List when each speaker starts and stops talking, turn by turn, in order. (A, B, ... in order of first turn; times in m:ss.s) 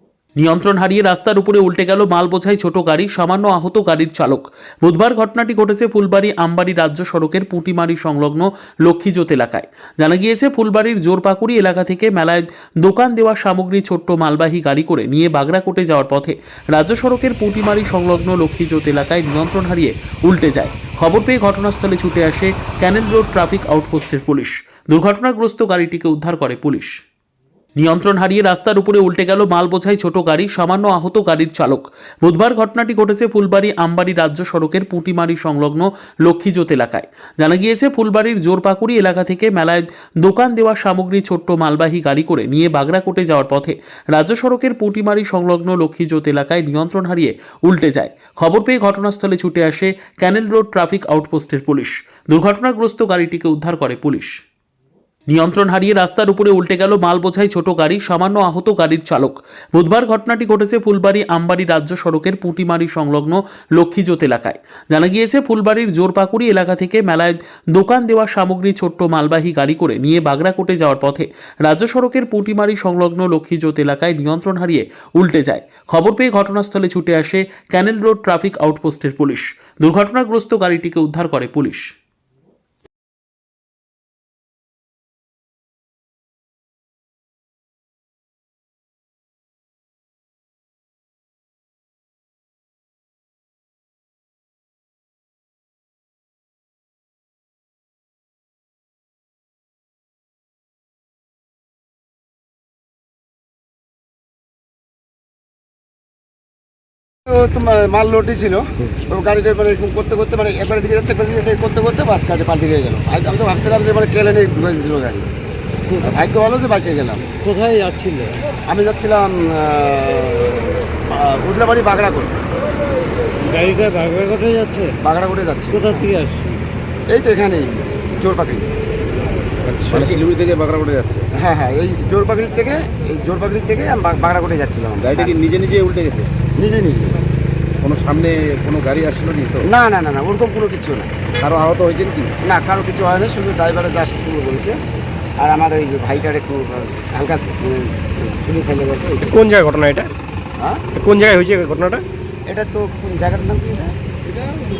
0:00.4-0:27.0 A
0:27.8-0:54.4 A
0:55.3-1:21.9 A
1:47.3-1:55.3 B
1:56.0-1:57.3 B
1:57.4-1:58.3 C
1:58.7-2:02.4 B
2:03.4-2:05.0 C
2:05.0-2:06.1 B
2:05.7-2:06.6 C
2:07.1-2:08.7 B
2:09.8-2:11.3 D
2:11.4-2:15.4 B
2:15.0-2:16.3 D
2:16.6-2:17.2 B
2:17.8-2:19.7 D
2:19.6-2:21.1 B
2:21.4-2:22.3 D
2:22.4-2:24.8 B
2:25.4-2:29.4 B
2:29.3-2:30.1 E
2:30.9-2:32.0 E
2:32.5-2:33.9 B